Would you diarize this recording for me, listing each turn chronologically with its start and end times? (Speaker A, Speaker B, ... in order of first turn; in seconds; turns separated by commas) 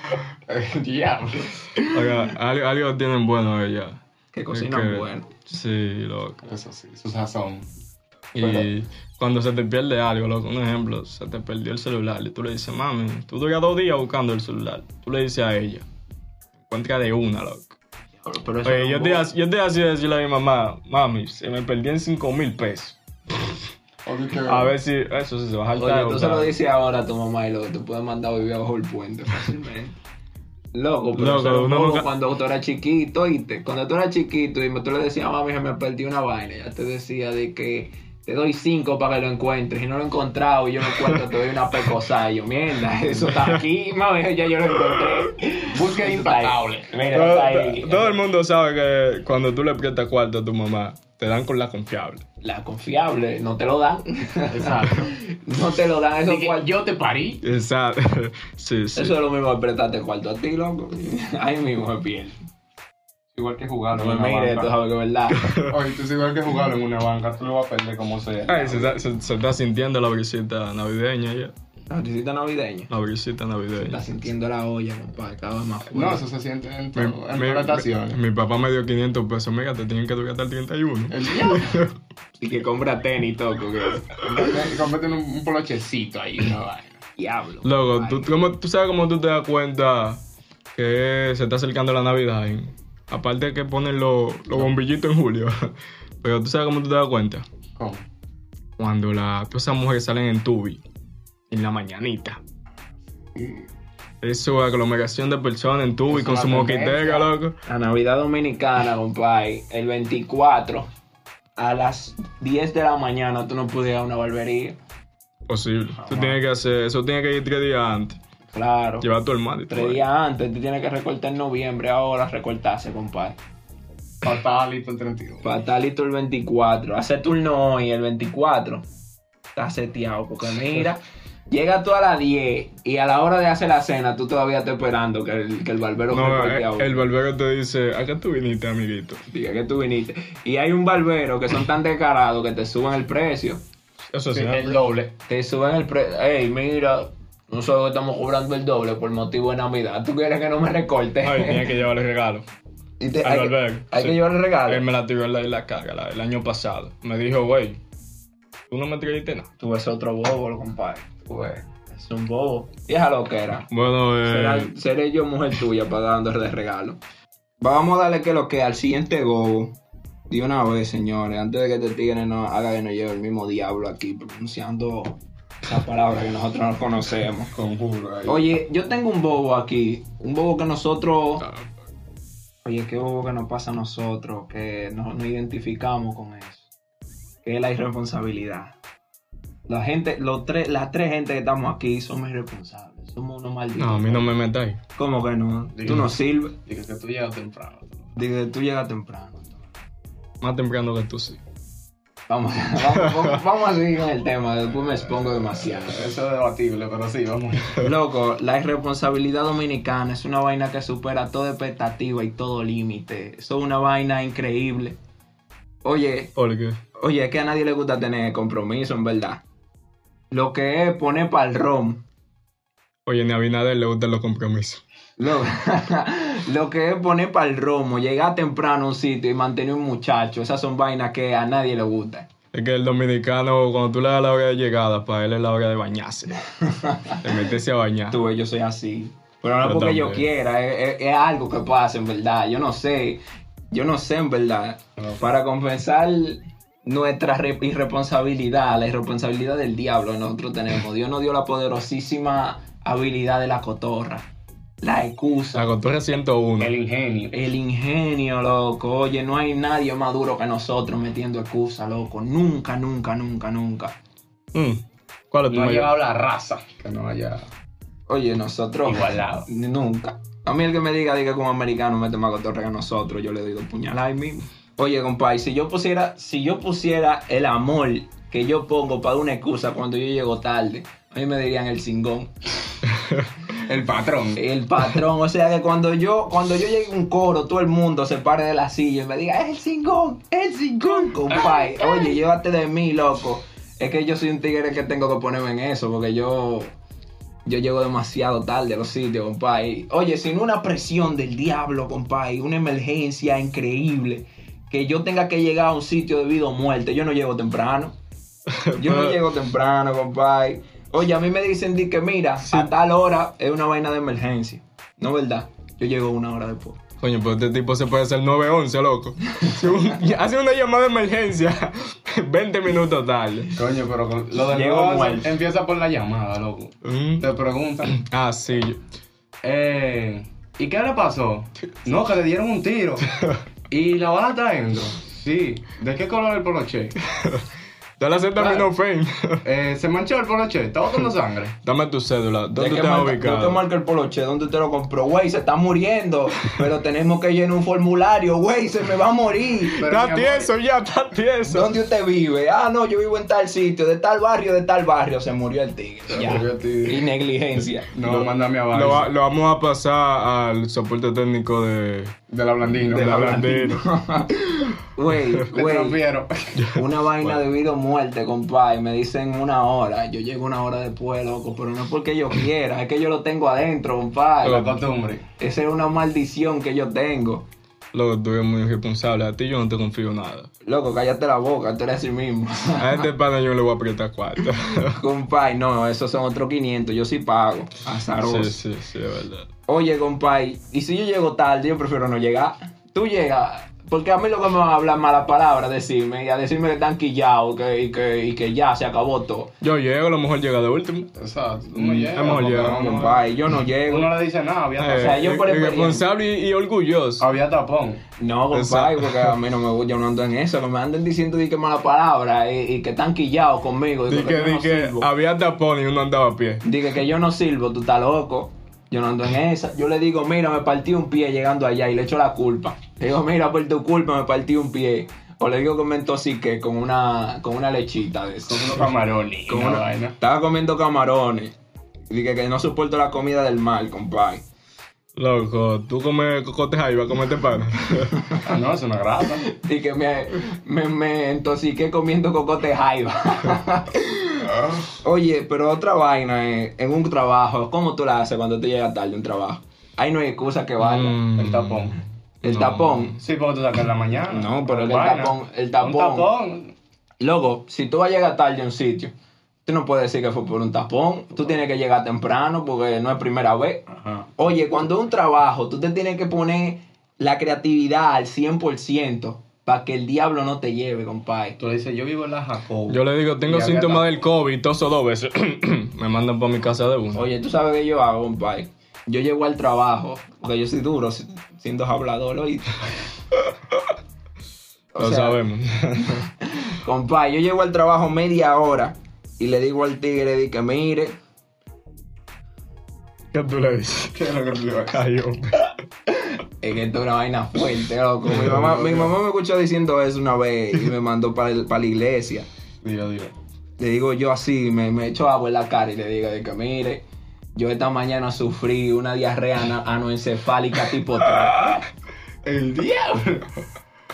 Speaker A: 0.5-1.6, Speaker B: 1.8-4.0, Speaker C: 4.3-5.3, Speaker B: 4.5-6.4, Speaker A: 6.4-7.7, Speaker B: 8.3-15.9, Speaker B: 16.7-17.8, Speaker C: 18.2-19.3, Speaker B: 18.6-23.5, Speaker A: 24.1-24.8, Speaker B: 24.5-26.5, Speaker C: 25.8-30.0, Speaker C: 30.7-48.2, Speaker B: 31.2-32.1, Speaker B: 43.3-43.6, Speaker A: 45.7-47.1, Speaker B: 47.1-52.2, Speaker C: 52.4-56.7, Speaker A: 54.5-55.1, Speaker A: 56.3-57.4, Speaker B: 57.4-59.2, Speaker C: 59.0-62.4, Speaker A: 63.3-64.7, Speaker C: 63.9-65.5, Speaker B: 65.3-65.8, Speaker A: 65.7-69.0, Speaker B: 68.5-71.5, Speaker C: 71.9-72.9, Speaker B: 72.9-74.0, Speaker C: 73.8-76.2, Speaker A: 75.9-78.2, Speaker B: 77.0-81.9, Speaker A: 81.1-81.8, Speaker C: 82.4-84.6, Speaker A: 84.2-87.0, Speaker C: 87.2-88.3, Speaker B: 87.7-90.2, Speaker B: 90.8-95.7, Speaker B: 96.2-97.5, Speaker A: 97.8-98.0, Speaker B: 98.8-100.8, Speaker B: 101.5-102.4, Speaker A: 103.2-103.7, Speaker B: 104.2-107.6, Speaker A: 106.1-107.3, Speaker C: 107.7-110.9, Speaker C: 111.6-114.8, Speaker B: 115.5-118.2, Speaker A: 116.1-116.4, Speaker C: 118.5-119.1, Speaker B: 119.0-120.0, Speaker C: 119.7-123.4, Speaker A: 124.2-125.5, Speaker C: 125.4-128.8, Speaker C: 129.6-137.0, Speaker B: 136.1-139.2, Speaker C: 139.3-143.6, Speaker B: 144.1-144.8, Speaker A: 144.3-145.1, Speaker C: 145.3-151.7, Speaker B: 151.2-152.4, Speaker C: 153.0-154.8, Speaker B: 153.2-157.8, Speaker B: 158.7-159.5, Speaker C: 159.6-163.7, Speaker A: 161.3-161.6, Speaker B: 163.7-164.7, Speaker C: 164.2-167.0, Speaker C: 167.6-169.8, Speaker C: 170.3-177.5, Speaker A: 177.5-178.5, Speaker C: 178.3-181.4, Speaker C: 182.7-186.7, Speaker C: 187.4-188.8, Speaker C: 189.7-194.3, Speaker B: 193.8-194.8, Speaker C: 195.0-196.6, Speaker A: 195.8-198.1, Speaker C: 198.2-199.7, Speaker B: 200.4-201.4, Speaker C: 202.3-206.0, Speaker A: 205.5-207.8, Speaker C: 207.8-215.0, Speaker C: 215.8-216.3, Speaker B: 216.4-216.8, Speaker C: 217.0-219.4, Speaker C: 220.3-222.0, Speaker B: 223.1-224.8, Speaker C: 225.2-232.3, Speaker B: 232.5-236.4, Speaker C: 236.6-237.2, Speaker B: 237.1-238.2, Speaker C: 238.1-243.2, Speaker B: 239.6-240.3, Speaker C: 243.7-254.3, Speaker C: 254.8-255.7, Speaker B: 255.6-256.7, Speaker A: 256.6-257.3, Speaker C: 257.3-263.9, Speaker B: 264.5-265.9, Speaker A: 265.5-267.5, Speaker C: 268.1-282.3, Speaker A: 268.9-269.5, Speaker A: 283.6-284.4, Speaker C: 284.4-296.7, Speaker A: 291.6-292.0, Speaker C: 297.5-308.0, Speaker B: 308.5-309.2, Speaker C: 308.8-316.8, Speaker B: 312.5-312.7, Speaker B: 317.0-323.6, Speaker A: 323.6-328.0, Speaker C: 324.4-325.3, Speaker B: 326.8-327.3, Speaker B: 327.9-328.8, Speaker A: 329.4-333.1, Speaker A: 333.7-337.0, Speaker B: 337.1-337.4, Speaker B: 338.0-339.4, Speaker A: 339.4-341.6, Speaker B: 341.6-343.6, Speaker C: 342.6-349.8, Speaker A: 349.8-350.5, Speaker B: 349.8-351.8, Speaker C: 351.5-357.9, Speaker A: 356.1-357.1, Speaker A: 357.9-359.1, Speaker B: 358.0-362.2, Speaker A: 362.3-363.5, Speaker B: 362.9-363.9, Speaker C: 362.9-366.0, Speaker A: 365.5-366.6, Speaker B: 366.6-367.3, Speaker C: 366.8-374.7, Speaker A: 374.4-375.3, Speaker B: 374.4-374.7, Speaker C: 375.4-377.5, Speaker B: 377.9-380.5, Speaker C: 380.6-383.1, Speaker B: 382.8-385.0, Speaker C: 384.8-388.6, Speaker B: 388.2-389.5, Speaker C: 389.7-399.5, Speaker B: 399.6-401.1, Speaker A: 401.1-403.2, Speaker B: 401.8-403.2, Speaker C: 402.7-404.1, Speaker A: 403.8-405.2, Speaker B: 404.8-407.3, Speaker C: 404.9-406.0, Speaker A: 407.2-408.0, Speaker C: 408.2-415.1, Speaker B: 408.5-409.4, Speaker B: 414.1-416.6, Speaker C: 416.6-428.8, Speaker A: 428.5-430.2, Speaker C: 429.5-431.5, Speaker C: 432.1-434.4, Speaker B: 435.2-438.3, Speaker A: 438.4-439.5, Speaker C: 439.4-451.2, Speaker B: 450.8-453.2, Speaker A: 451.4-452.0, Speaker C: 452.4-453.2, Speaker A: 453.2-456.7, Speaker C: 454.3-456.3, Speaker C: 457.2-459.1, Speaker C: 459.7-471.6, Speaker A: 463.9-464.3, Speaker A: 471.6-474.2, Speaker B: 472.9-477.3, Speaker C: 477.1-482.7, Speaker C: 484.9-485.4, Speaker B: 485.0-486.3, Speaker C: 486.4-491.2, Speaker B: 493.3-494.3, Speaker A: 494.1-495.0, Speaker B: 494.9-495.7, Speaker C: 496.2-502.5, Speaker B: 498.3-498.7, Speaker A: 498.4-499.1, Speaker A: 502.8-503.4, Speaker C: 503.8-511.8, Speaker A: 512.4-513.5